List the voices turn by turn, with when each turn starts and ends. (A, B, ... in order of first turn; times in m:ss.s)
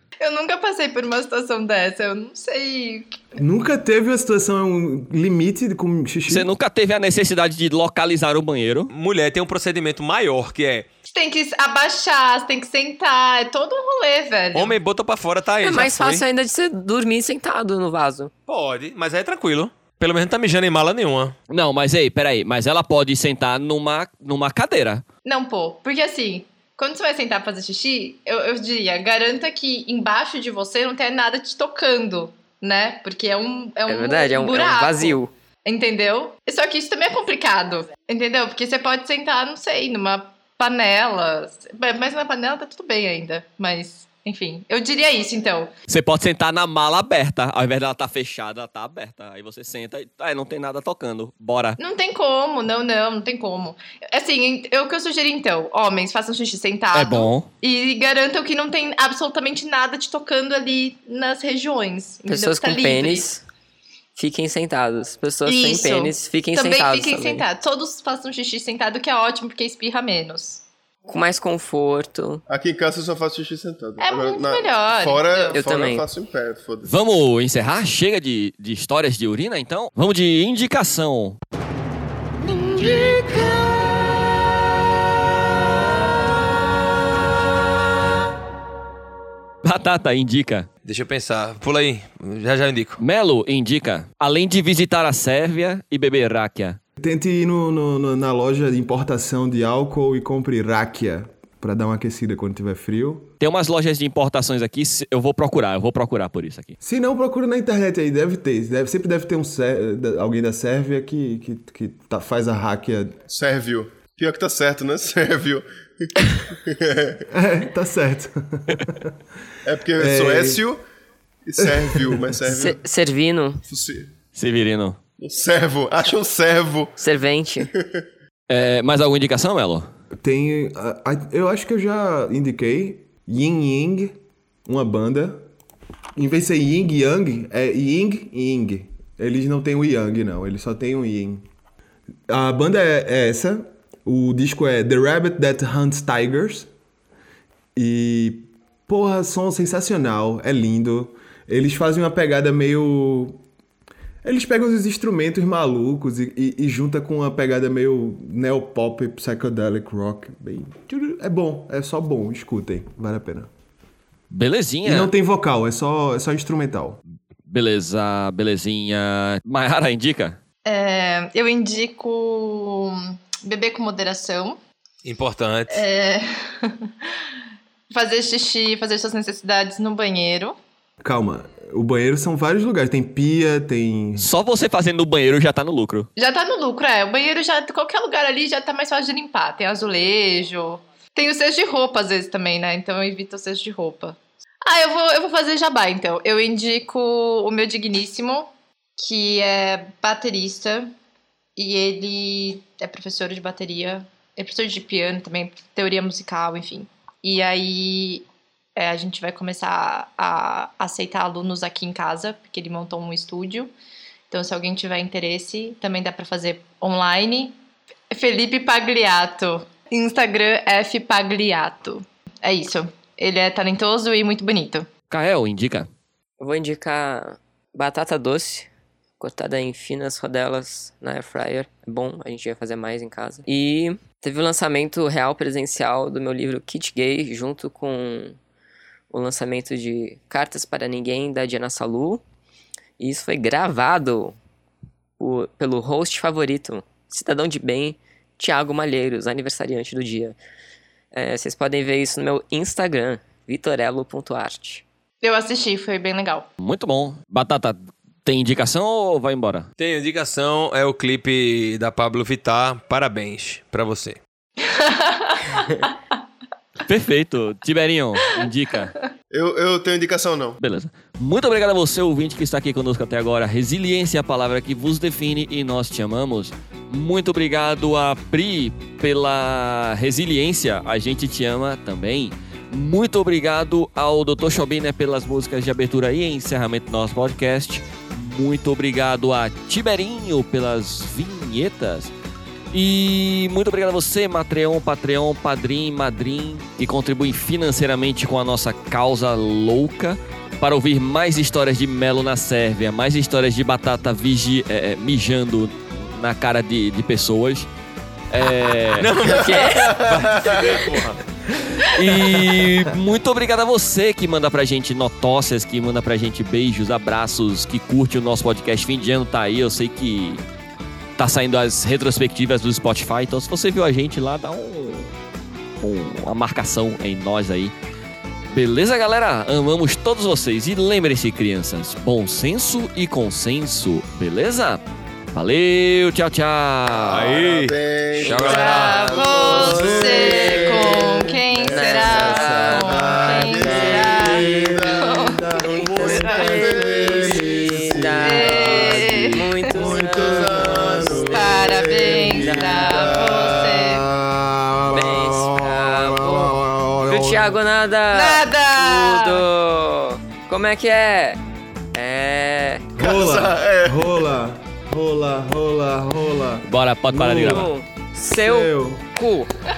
0:00.2-0:03.2 A
0:03.4-0:06.5 B
0:06.3-0:08.9 C
0:08.9-0:10.9 D
0:11.1-0:14.8 A
0:14.5-0:16.2 D
0:15.6-0:18.3 E
0:18.5-0:21.4 D
0:21.5-0:25.0 C
0:25.2-0:45.7 A
0:33.9-0:35.3 E
0:45.9-0:51.8 C
0:51.8-1:03.3 A
0:56.9-0:57.5 C
1:02.3-1:03.4 E
1:04.2-1:07.4 E
1:05.5-1:10.6 A
1:11.1-1:12.4 E
1:12.5-1:17.0 F
1:14.0-1:15.6 A
1:15.5-1:16.0 E
1:16.8-1:21.4 C
1:23.0-1:23.5 B
1:29.6-1:30.7 C
1:30.8-1:33.0 D
1:33.0-1:36.8 C
1:37.0-1:43.3 B
1:43.4-1:46.8 C
1:46.8-1:53.2 B
1:53.3-1:57.2 F
1:57.3-1:59.2 B
1:59.6-2:00.8 F
2:00.0-2:00.6 B
2:01.4-2:02.8 F
2:01.6-2:02.7 B
2:02.5-2:03.6 E
2:03.7-2:04.1 F
2:04.4-2:05.0 C
2:05.2-2:06.9 F
2:07.0-2:07.7 E
2:07.8-2:08.0 F
2:08.5-2:09.9 C
2:10.2-2:15.4 B
2:16.2-2:21.5 B
2:22.3-2:26.7 B
2:27.8-2:33.4 B
2:34.2-2:43.5 B
2:44.3-2:45.1 C
2:44.8-2:47.0 B
2:47.5-2:50.4 C
2:50.7-2:54.6 A
2:55.0-2:55.8 D
2:55.7-2:56.9 A
2:57.9-3:00.6 A
3:01.0-3:04.3 B
3:04.2-3:06.1 C
3:06.2-3:20.9 A
3:21.6-3:28.2 A
3:28.8-3:33.7 A
3:34.3-3:37.6 A
3:38.1-3:44.9 A
3:45.1-3:45.9 C
3:46.4-3:48.7 E
3:49.2-3:58.4 E
3:59.1-4:02.2 E
4:03.0-4:04.4 E
4:05.2-4:10.4 E
4:11.1-4:14.8 E
4:15.2-4:16.5 A
4:16.6-4:19.7 C
4:19.8-4:24.2 D
4:24.6-4:25.9 A
4:26.9-4:29.0 C
4:29.3-4:30.6 F
4:30.6-4:52.1 C
4:52.7-5:07.7 C
5:08.3-5:09.1 C
5:08.9-5:11.2 D
5:09.2-5:10.0 E
5:09.3-5:10.8 F
5:11.8-5:20.4 C
5:21.2-5:25.1 C
5:25.8-5:27.7 C
5:28.5-5:37.4 C
5:37.1-5:39.3 D
5:37.4-5:41.8 F
5:38.3-5:45.4 A
5:39.5-5:41.2 B
5:41.7-5:43.9 E
5:41.8-5:57.6 B
5:43.2-5:45.1 F
5:45.6-5:47.4 F
5:45.6-5:53.2 E
5:48.2-5:49.7 A
5:50.1-5:51.3 F
5:51.3-5:54.1 A
5:54.9-6:01.4 E
5:58.1-5:59.4 A
6:01.9-6:02.9 E
6:03.0-6:07.7 B
6:03.0-6:04.1 F
6:06.7-6:07.7 C
6:07.3-6:09.5 E
6:08.4-6:09.1 B